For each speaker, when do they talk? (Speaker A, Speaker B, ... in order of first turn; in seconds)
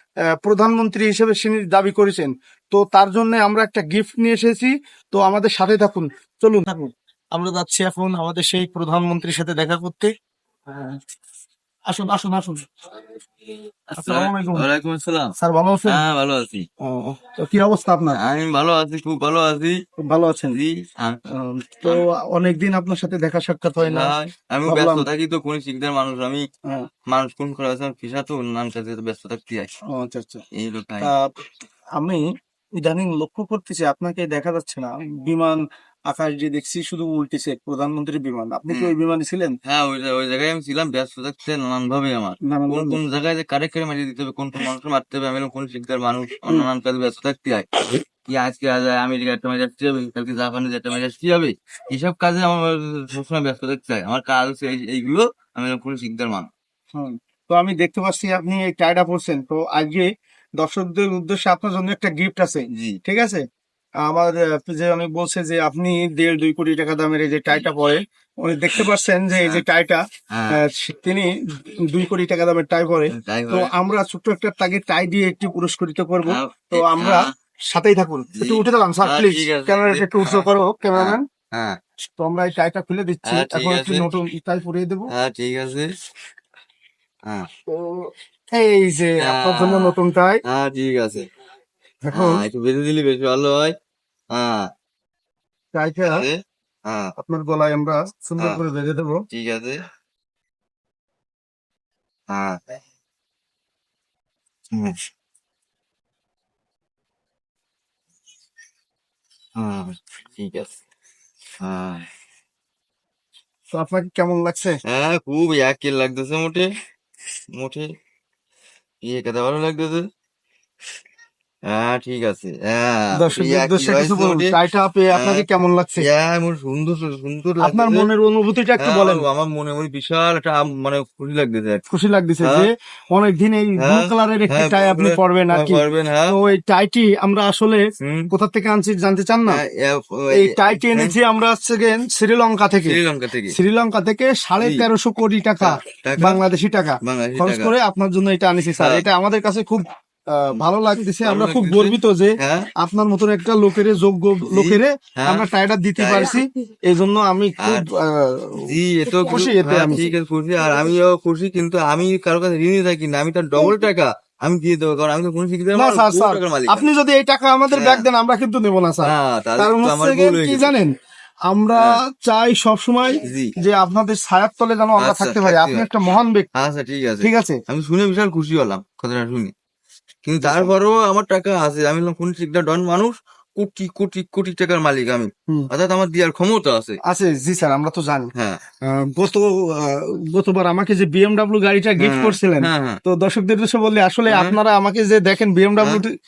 Speaker A: 0.4-10.1, 10.7-11.0, 11.9-12.7, 14.0-14.7, 15.4-16.0, 16.8-18.2, 20.0-20.6, 21.3-24.1, 24.7-25.1, 29.9-30.4, 32.0-32.2, 32.8-39.6, 42.5-43.0, 56.9-63.4, 64.0-81.2, 82.2-85.1, 87.7-90.4, 92.1-92.4, 95.7-96.2, 97.2-99.2, 113.7-114.8, 123.2-126.0, 127.6-129.2, 131.9-139.6, 140.3-143.0, 143.5-158.6, 159.1-160.0, 165.8-170.9, 171.5-176.5, 177.2-177.6, 180.4-180.7, 187.0-188.3, 188.8-196.1
Speaker B: 13.9-15.3, 15.9-16.7, 18.1-19.8, 20.5-21.2, 23.8-26.4, 27.1-29.7, 30.6-31.1, 39.6-56.5, 62.7-63.0, 70.3-70.6, 73.1-73.7, 76.3-77.3, 78.3-81.8, 83.3-84.1, 85.1-85.9, 89.2-90.0, 90.5-91.3, 92.1-93.7, 94.3-94.7, 96.1-97.1, 99.3-99.8, 102.3-102.6, 104.7-105.0, 109.6-110.8, 111.6-112.1, 114.9-116.7, 117.6-117.9, 119.1-120.0, 121.7-124.6, 125.2-125.5, 126.0-128.1, 128.8-131.8, 133.8-136.3, 138.0-138.3, 139.5-141.1, 142.8-143.5, 144.6-144.9, 145.6-146.4, 147.0-147.7, 151.2-152.7, 154.5-156.4, 158.7-166.9, 167.7-168.0, 169.0-170.7, 173.2-173.5, 175.0-175.8, 176.5-179.5, 180.2-187.0, 188.3-188.6, 192.0-193.0, 194.3-194.6